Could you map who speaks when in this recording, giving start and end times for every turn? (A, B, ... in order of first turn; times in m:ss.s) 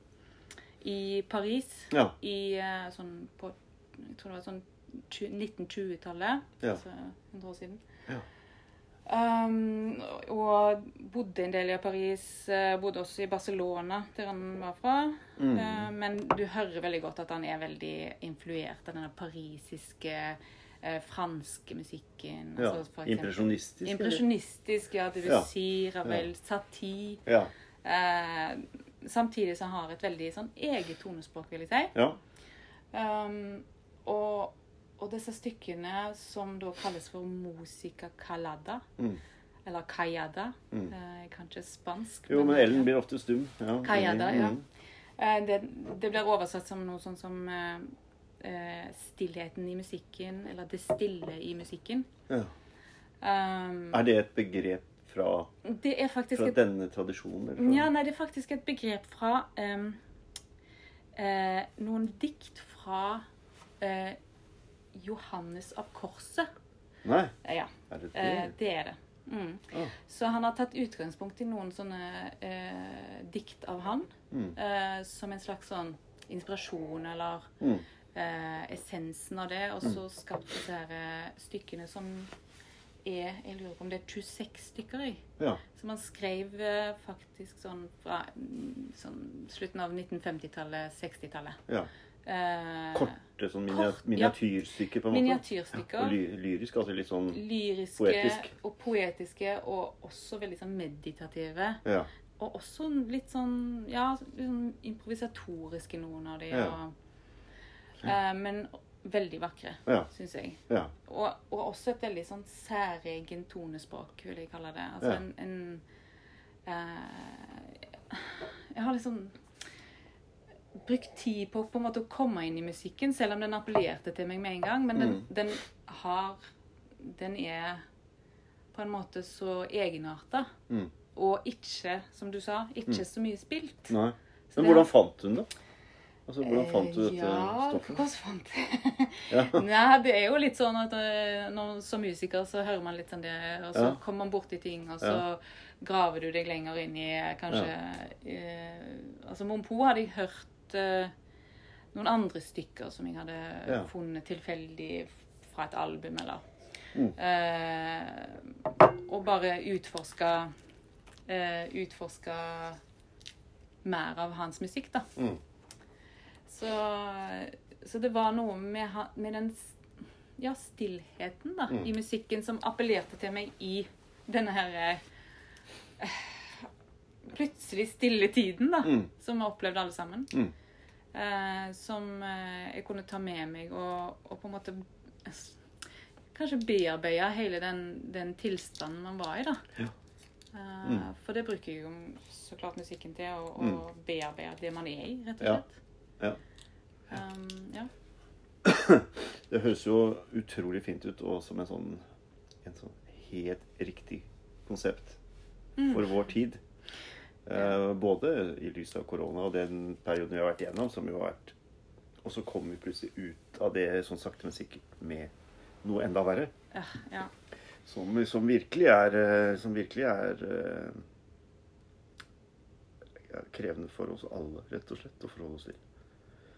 0:00.8-0:07.8 A
0:09.1-0:27.2 A
0:15.4-0:15.9 B
0:22.6-0:24.2 B
0:27.2-0:27.5 B
0:27.8-0:31.9 A
0:32.9-0:38.8 A
0:39.6-0:42.9 A
0:42.3-0:44.6 B
0:43.8-0:44.6 A
0:45.2-0:52.1 A
0:53.2-0:54.0 A
0:53.9-0:55.5 B
0:55.6-0:56.6 A
0:56.3-0:57.9 B
0:57.6-1:00.0 A
1:01.1-1:03.2 A
1:03.8-1:04.2 A
1:04.9-1:06.5 A
1:07.0-1:07.3 B
1:07.4-1:17.5 A
1:07.9-1:08.5 B
1:14.3-1:14.6 B
1:18.1-1:22.3 A
1:23.0-1:31.6 A
1:32.2-1:33.2 A
1:32.9-1:37.4 B
1:33.7-1:34.4 A
1:35.1-1:36.2 A
1:37.3-1:41.8 A
1:38.0-1:38.5 B
1:42.4-1:46.9 A
1:46.5-1:46.8 B
1:48.0-1:55.8 A
1:56.6-1:59.4 A
2:00.7-2:06.4 A
2:05.0-2:05.2 B
2:07.0-2:07.8 A
2:08.7-2:10.5 A
2:11.1-2:13.9 A
2:13.9-2:15.5 B
2:14.5-2:14.9 A
2:16.3-2:18.0 B
2:16.4-2:31.1 A
2:19.3-2:19.6 B
2:31.9-2:36.4 A
2:37.1-2:40.5 A
2:41.3-2:42.8 A
2:43.8-2:45.1 A
2:46.5-2:49.7 A
2:50.4-2:55.0 A
2:56.0-2:56.7 A
2:57.2-3:00.3 A
2:58.8-2:59.1 B
3:01.1-3:05.6 A
3:06.3-3:09.6 A
3:10.5-3:15.7 A
3:17.1-3:17.9 A
3:18.6-3:22.0 B
3:22.6-3:25.2 B
3:25.8-3:26.0 A
3:25.8-3:26.6 B
3:27.4-3:31.5 B
3:32.2-3:35.3 B
3:35.8-3:36.5 B
3:36.7-3:37.3 A
3:37.9-3:41.0 B
3:43.3-3:45.8 B